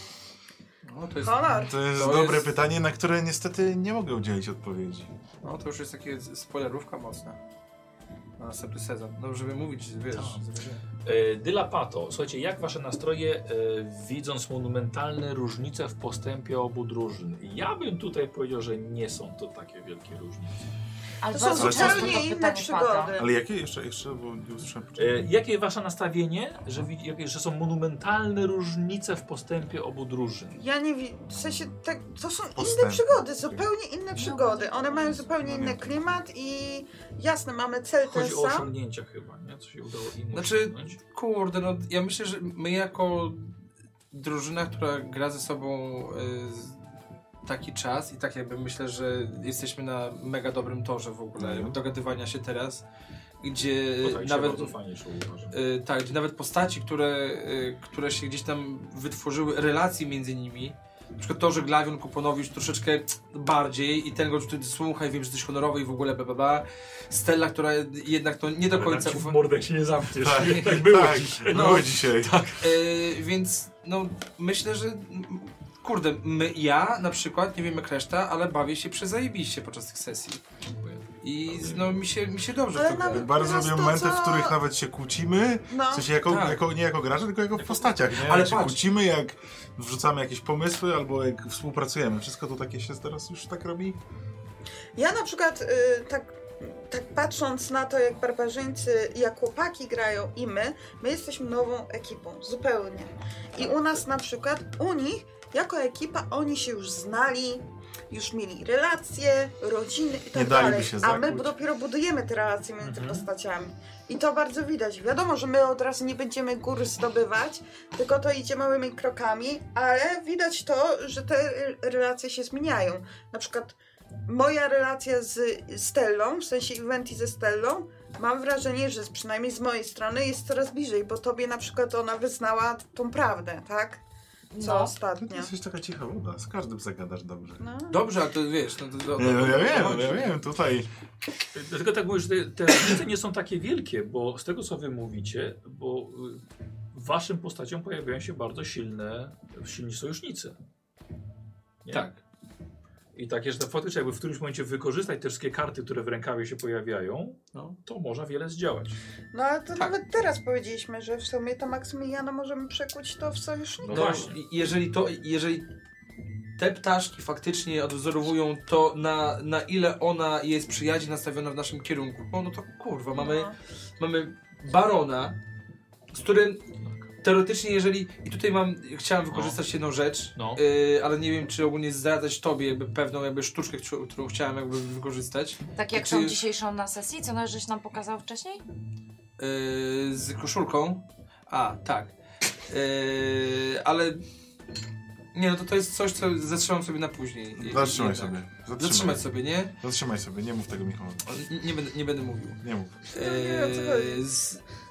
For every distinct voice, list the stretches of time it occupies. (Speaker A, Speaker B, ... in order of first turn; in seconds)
Speaker A: 0.8-2.5, 5.4-7.4, 8.4-10.8, 40.3-43.5, 44.1-46.8, 47.5-52.8, 53.4-54.7, 55.5-69.4, 71.5-71.9, 72.6-80.4, 81.2-83.3, 86.2-86.6, 87.8-88.8, 137.9-140.4, 151.9-152.2, 163.9-165.7, 166.6-175.4, 176.1-176.6, 177.2-186.4, 189.4-192.2, 192.7-194.2, 195.3-199.8, 201.3-204.6
Speaker B: 1.2-1.7, 21.3-23.3, 30.5-38.7, 82.7-84.5, 85.7-86.1, 95.0-123.8, 124.3-134.0, 134.6-135.5, 137.6-138.1, 159.3-164.3, 173.1-173.5, 203.2-204.2
Speaker C: 1.5-5.1, 21.6-22.3, 23.2-25.3, 32.5-33.7, 35.2-36.2, 51.4-51.8, 70.2-72.4, 83.1-94.0, 110.3-111.5, 135.2-137.6, 139.2-140.9, 197.6-199.3, 199.8-201.3, 202.6-203.0
Speaker D: 10.1-10.4, 11.0-20.7, 25.0-30.6, 38.0-41.0, 54.0-55.6, 68.7-72.6, 80.8-82.0, 112.8-113.3, 141.5-146.4, 146.9-150.6, 153.2-159.0, 163.8-164.4, 179.3-179.6, 180.4-180.6
Speaker E: 21.2-23.1, 34.1-35.2, 134.5-134.9, 185.8-188.6